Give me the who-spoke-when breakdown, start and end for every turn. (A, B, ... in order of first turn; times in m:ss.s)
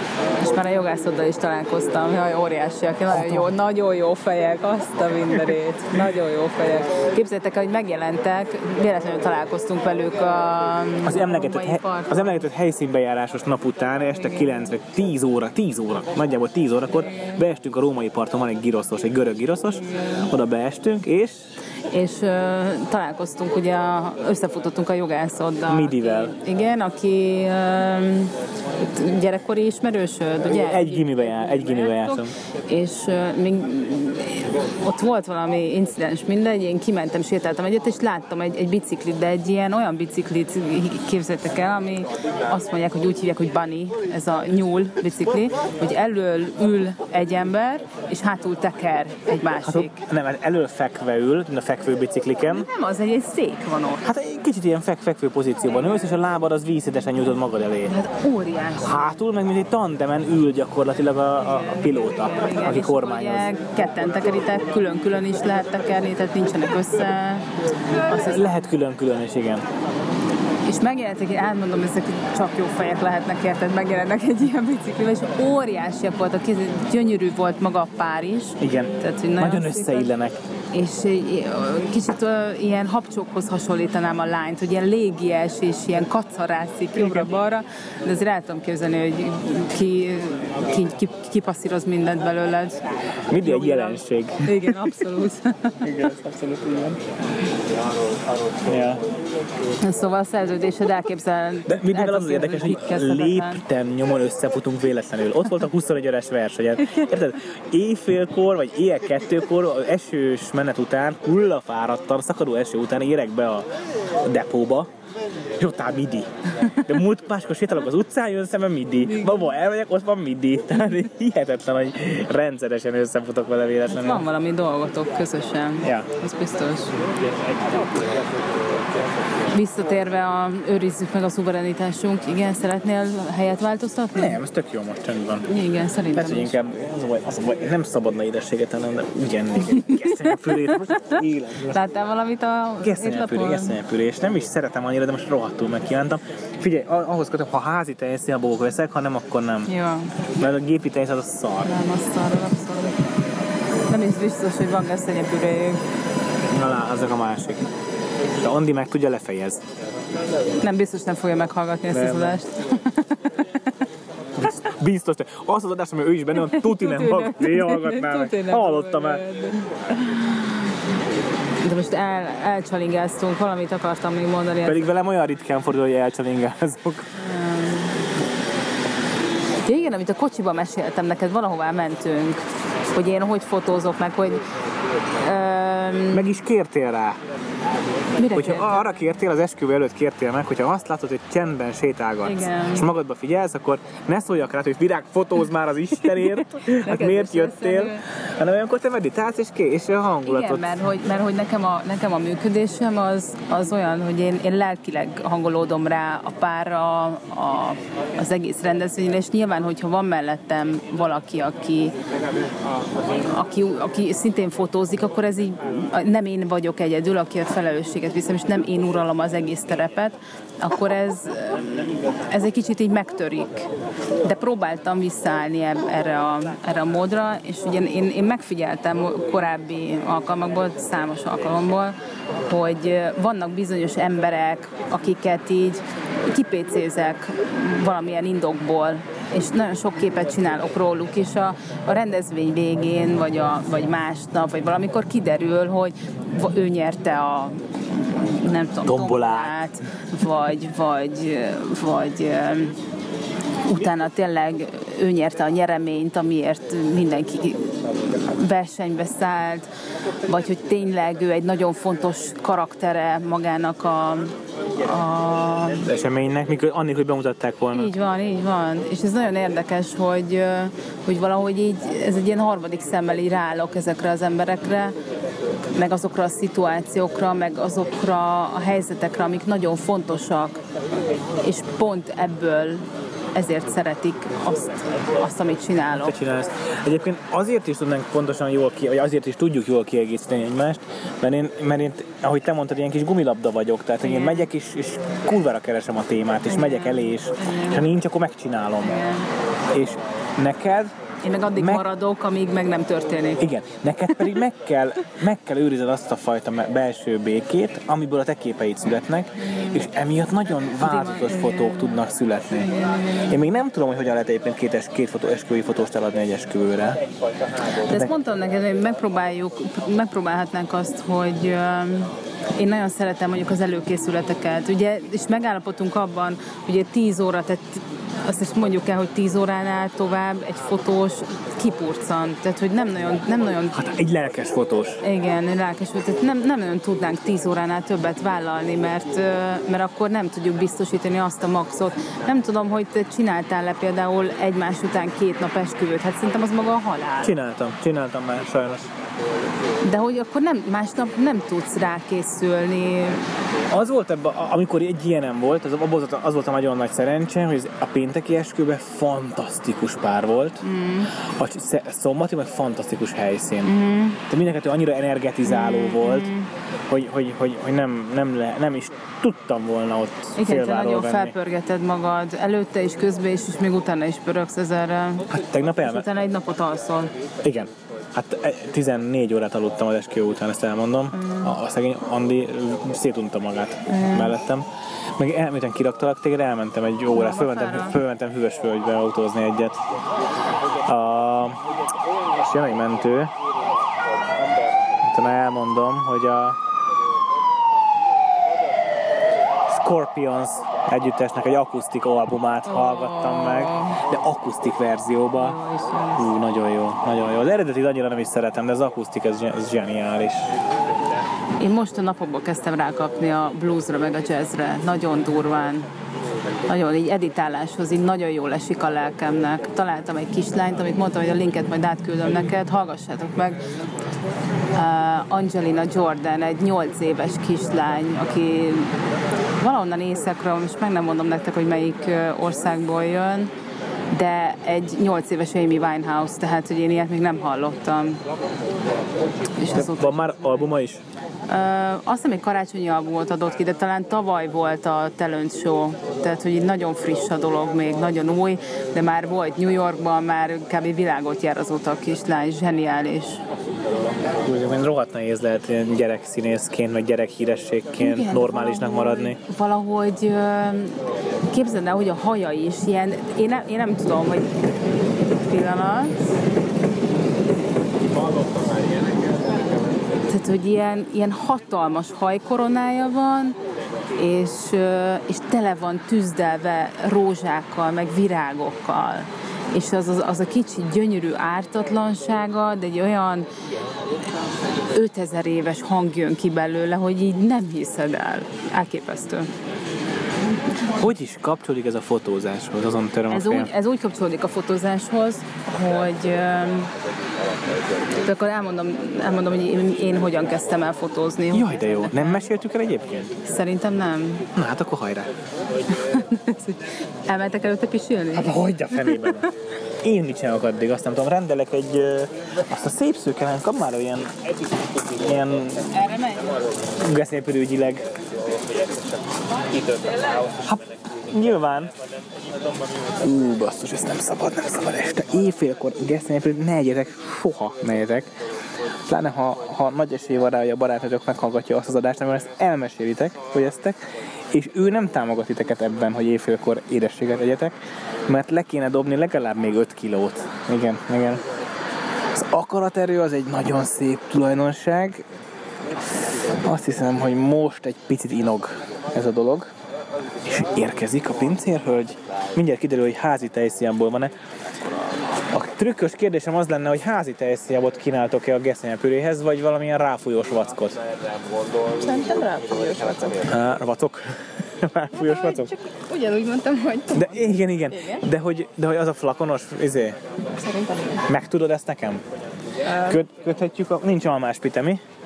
0:00.4-0:12.4 A
0:03.1-0:03.5 B
0:11.0-0:21.4 B
0:14.1-0:14.7 A
0:17.1-0:17.4 A
0:21.9-0:31.0 A
0:25.7-0:26.3 B
0:30.6-0:32.3 B
0:31.8-0:50.0 A
0:49.6-0:52.7 B
0:52.5-0:54.0 A
0:54.0-0:57.9 B
0:57.8-0:59.0 A
0:58.8-1:03.5 B
1:01.5-1:07.5 A
1:08.1-1:08.6 A
1:08.2-1:09.7 B
1:10.7-1:20.1 A
1:18.6-1:20.4 B
1:20.7-1:32.8 A
1:27.0-1:27.3 B
1:33.3-1:35.0 B
1:33.4-1:36.1 A
1:35.8-1:37.0 B
1:38.6-1:39.0 B
1:39.8-1:43.6 A
1:41.7-1:53.7 B
1:54.2-1:54.9 B
1:55.6-2:04.3 B
1:59.1-1:59.4 A
2:03.9-2:06.9 A
2:05.8-2:06.1 B
2:09.5-2:14.4 A
2:14.2-2:15.5 B
2:15.5-2:16.6 A
2:16.1-2:21.8 B
2:19.7-2:23.8 A
2:22.8-2:29.7 B
2:29.7-2:30.1 A
2:30.4-2:31.7 B
2:31.6-2:33.0 A
2:33.9-2:35.8 A
2:36.5-2:37.7 B
2:38.4-2:39.6 B
2:40.6-2:43.6 A
2:41.9-2:42.4 B
2:44.4-2:49.2 B
2:46.4-2:50.6 A
2:51.6-2:54.8 A
2:54.6-2:57.1 B
2:57.2-2:58.0 A
2:59.6-3:04.4 A
3:05.2-3:06.3 A
3:06.1-3:07.2 B
3:08.2-3:09.0 A
3:08.3-3:20.8 B
3:12.2-3:12.9 A
3:16.3-3:18.0 A
3:20.2-3:31.9 A
3:33.2-3:43.7 A
3:44.2-4:12.8 A
4:08.8-4:09.7 B
4:13.6-4:17.7 A
4:18.3-4:19.7 A
4:20.3-4:25.8 A
4:25.8-4:27.9 B
4:27.7-4:34.9 A
4:35.7-4:40.6 A
4:41.4-4:46.2 A
4:45.9-4:59.0 B
4:54.0-4:54.5 A
4:56.5-4:57.8 A
4:58.8-4:59.3 A
4:59.7-5:00.9 B
5:01.2-5:03.4 A
5:01.5-5:01.8 B
5:03.4-5:17.0 B
5:09.4-5:09.9 A
5:10.8-5:12.0 A
5:12.6-5:13.4 A
5:17.8-5:33.8 A
5:17.9-5:18.1 B
5:33.7-5:35.0 B
5:35.0-5:47.4 A
5:47.2-5:48.9 B
5:49.8-5:53.3 A
5:53.7-6:00.6 B
6:00.6-6:01.1 A
6:01.2-6:06.3 B
6:03.6-6:04.2 A
6:05.4-6:06.5 A
6:06.9-6:11.4 B
6:10.4-6:15.3 A
6:15.3-6:16.1 B
6:15.8-6:17.1 A
6:17.4-6:24.7 B
6:21.1-6:21.6 A
6:23.9-6:24.4 A
6:25.2-6:29.8 B
6:27.1-6:28.0 A
6:30.8-6:31.6 B
6:32.4-6:33.3 B
6:35.0-6:36.6 B
6:39.7-6:45.6 B
6:42.7-6:44.0 A
6:45.4-6:46.3 A
6:46.2-6:50.5 B
6:51.6-6:55.9 A
6:56.7-7:03.6 A
7:04.7-7:08.9 A
7:09.6-7:13.5 A
7:14.1-7:18.2 A
7:19.6-7:20.2 A
7:19.7-7:21.0 B
7:21.5-7:33.4 A
7:34.4-7:39.4 B
7:38.0-7:41.0 A
7:41.5-7:44.6 A
7:45.5-7:46.2 A
7:50.3-7:53.6 A
7:54.2-8:03.5 A
8:04.9-8:09.5 A
8:10.9-8:13.7 B
8:13.3-8:16.9 A
8:18.2-8:21.8 A
8:21.5-8:23.4 B
8:23.4-8:24.5 A
8:24.6-8:25.3 B
8:25.9-8:29.5 A
8:28.3-8:29.5 B
8:30.0-8:34.3 B
8:35.0-8:35.9 B
8:36.0-8:36.4 A
8:37.0-8:38.1 B
8:40.5-8:41.9 B
8:43.2-8:48.3 B
8:49.1-8:57.8 B
8:58.3-9:01.4 B
9:02.3-9:05.2 B
9:06.6-9:09.7 B
9:10.4-9:14.3 B
9:15.5-9:21.0 B
9:22.0-9:23.5 C
9:23.4-9:25.7 B
9:25.2-9:27.4 C
9:27.1-9:30.2 B
9:27.9-9:28.2 C
9:30.6-9:31.2 C
9:31.3-9:32.2 B
9:32.8-9:33.2 C
9:33.0-9:35.0 B